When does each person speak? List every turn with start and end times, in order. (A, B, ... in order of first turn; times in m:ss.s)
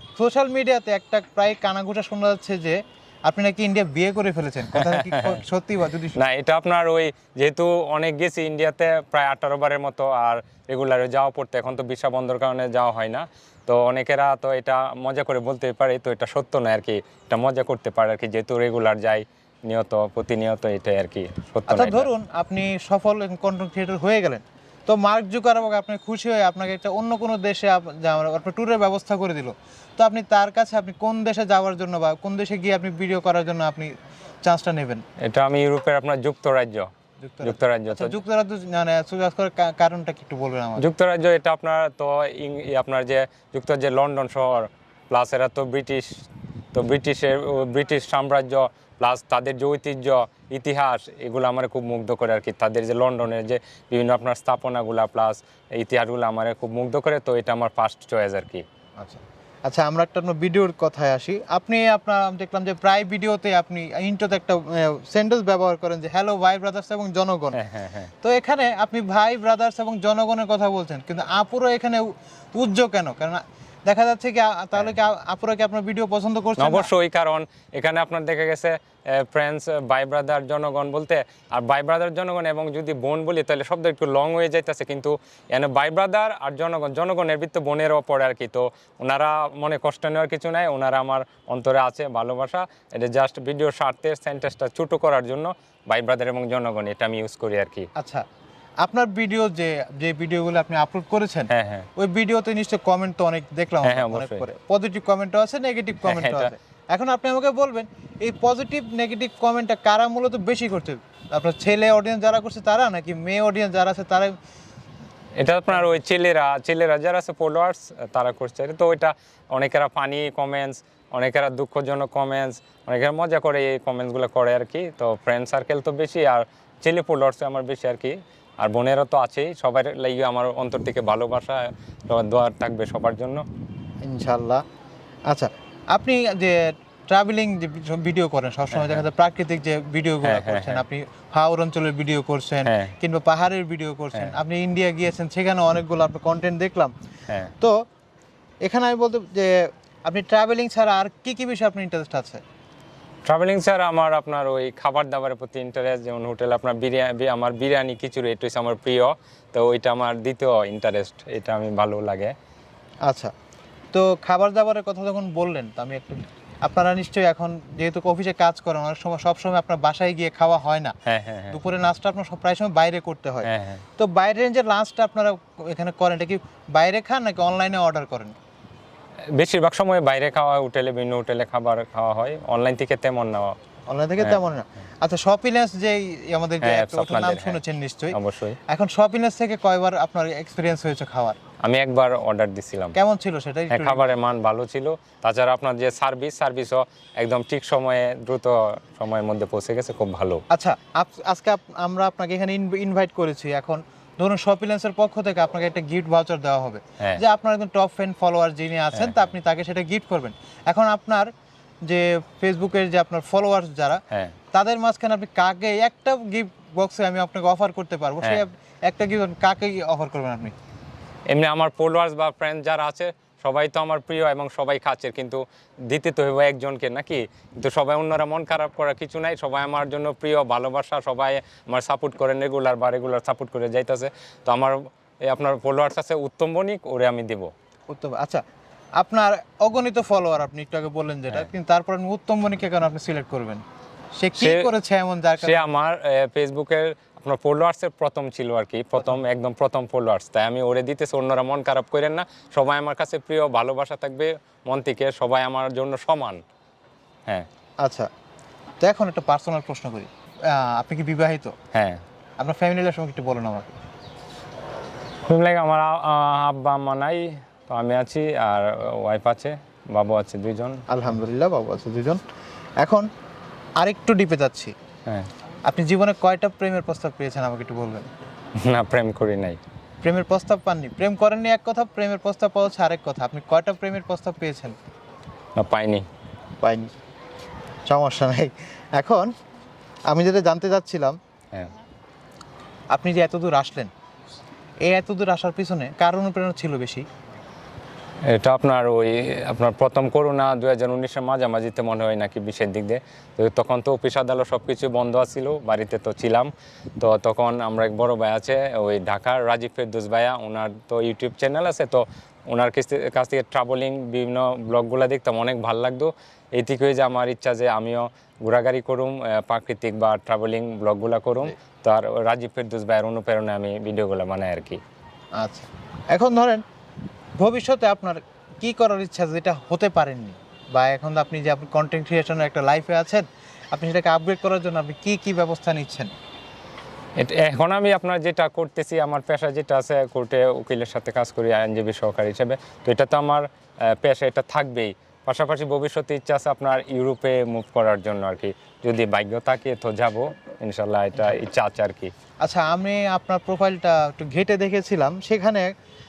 0:00.2-0:06.2 A
0:04.7-0:05.4 B
0:06.2-0:22.1 B
0:21.7-0:35.0 A
0:35.2-0:36.9 B
0:37.2-0:40.8 A
0:37.4-0:38.2 B
0:40.8-0:58.6 B
0:59.0-1:07.6 A
1:07.6-1:08.1 B
1:08.2-1:16.9 A
1:16.6-1:37.9 B
1:38.0-1:38.2 A
1:38.8-1:54.4 A
1:41.5-1:41.9 B
1:43.8-1:44.4 B
1:46.0-1:46.5 B
1:55.4-2:13.4 B
2:14.0-2:14.6 A
2:15.3-2:26.9 A
2:18.7-2:19.0 B
2:20.2-2:20.8 B
2:22.6-2:22.9 B
2:28.6-2:32.4 A
2:33.2-2:42.3 B
2:43.0-2:43.3 A
2:43.9-2:50.9 A
2:51.1-2:51.6 B
2:51.5-2:58.3 A
2:53.4-2:53.8 B
2:59.3-3:03.5 B
3:03.9-3:08.2 A
3:06.6-3:07.6 B
3:08.1-3:08.6 B
3:08.7-3:11.4 A
3:11.6-3:13.0 B
3:12.9-3:14.1 A
3:13.7-3:20.4 B
3:20.5-3:31.3 A
3:31.8-3:40.5 A
3:41.3-3:57.5 B
3:57.9-3:58.4 A
3:59.0-4:03.6 A
4:04.2-4:05.6 A
4:04.4-4:04.7 B
4:05.4-4:16.4 B
4:17.8-4:18.1 A
4:18.8-4:21.5 A
4:21.7-4:22.0 B
4:22.4-4:23.8 A
4:25.3-4:30.8 B
4:30.9-4:32.2 A
4:32.8-4:33.1 A
4:33.8-4:34.7 A
4:35.6-4:38.1 A
4:38.6-4:39.6 B
4:40.0-4:44.8 A
4:45.6-4:46.0 B
4:46.6-4:47.0 A
4:47.9-4:49.3 A
4:50.1-4:51.2 A
4:52.9-4:53.9 A
4:54.8-4:57.0 A
4:58.3-5:24.8 B
5:25.4-5:26.6 A
5:27.4-5:36.1 A
5:37.2-5:52.1 B
5:52.4-5:55.7 A